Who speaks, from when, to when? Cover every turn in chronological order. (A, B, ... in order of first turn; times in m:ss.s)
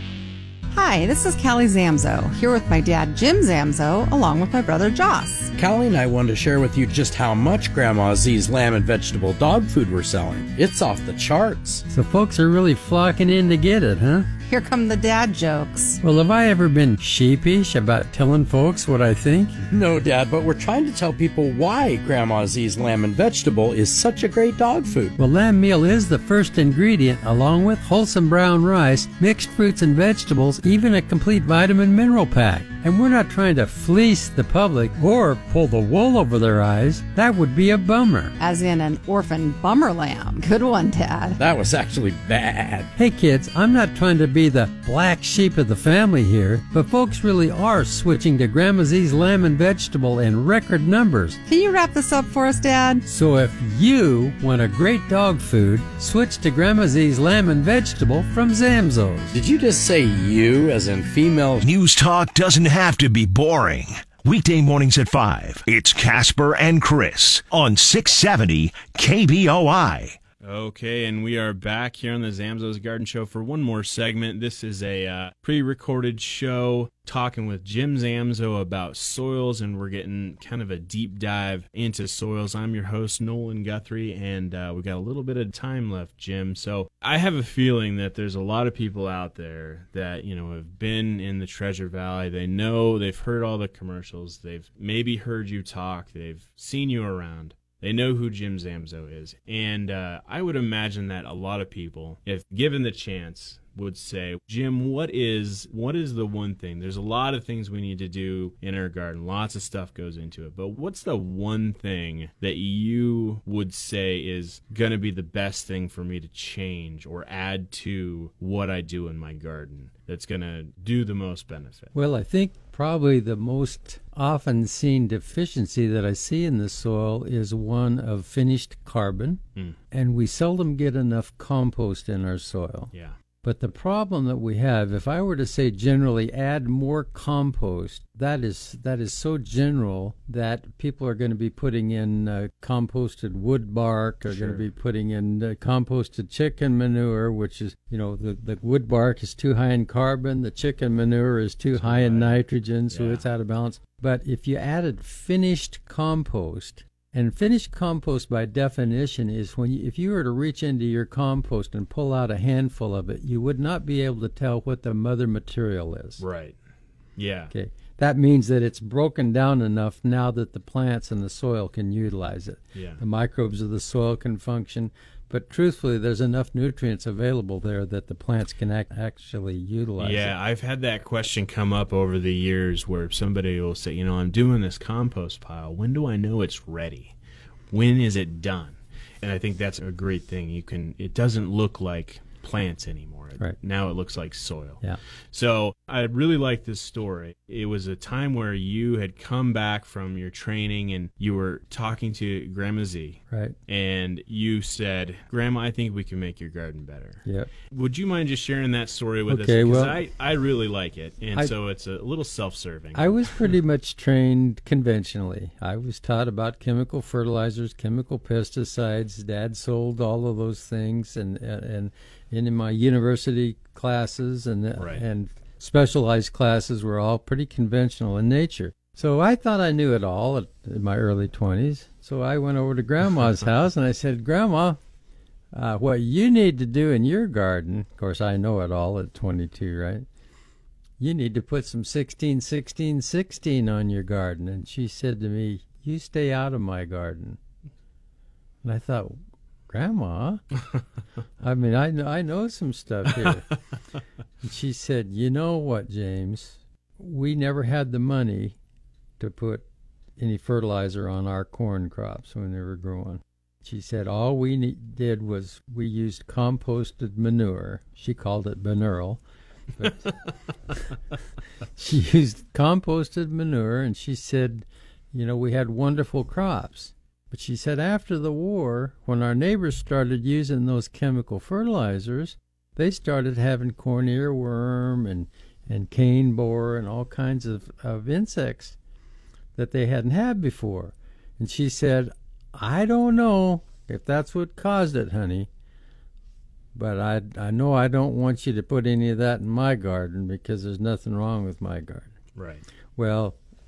0:00.7-0:05.5 A
0:05.6-0:11.8 B
0:11.9-0:14.3 C
0:14.4-0:16.0 A
0:16.0-0:19.6 C
0:19.7-0:25.1 B
0:25.2-0:38.3 C
0:38.4-0:41.4 A
0:41.4-0:42.9 B
0:43.0-0:51.4 C
0:51.5-0:53.0 A
0:53.0-0:59.4 C
0:59.3-1:01.6 B
1:01.6-1:10.2 D
1:10.4-2:01.9 E
2:01.9-2:12.9 C
2:13.4-2:46.2 C
2:24.3-2:24.6 E
2:31.7-2:32.4 E
2:32.9-2:33.3 E
2:46.2-2:46.6 E
2:47.2-2:47.5 E
2:47.5-3:00.4 C
2:52.7-2:53.0 E
3:00.0-3:07.1 E
3:07.7-3:33.4 E
3:23.3-3:23.6 C
3:29.3-3:30.0 C
3:32.9-3:54.8 C
3:44.8-3:45.0 E
3:55.5-4:00.0 C
4:01.0-4:07.4 C
4:08.6-4:10.4 C
4:11.4-4:13.5 C
4:14.4-4:18.6 C
4:19.2-4:19.6 C
4:20.2-4:29.2 C
4:31.8-4:48.8 C
4:49.5-4:55.5 C
4:56.7-5:02.1 C
5:02.4-5:02.6 E
5:03.0-5:03.4 C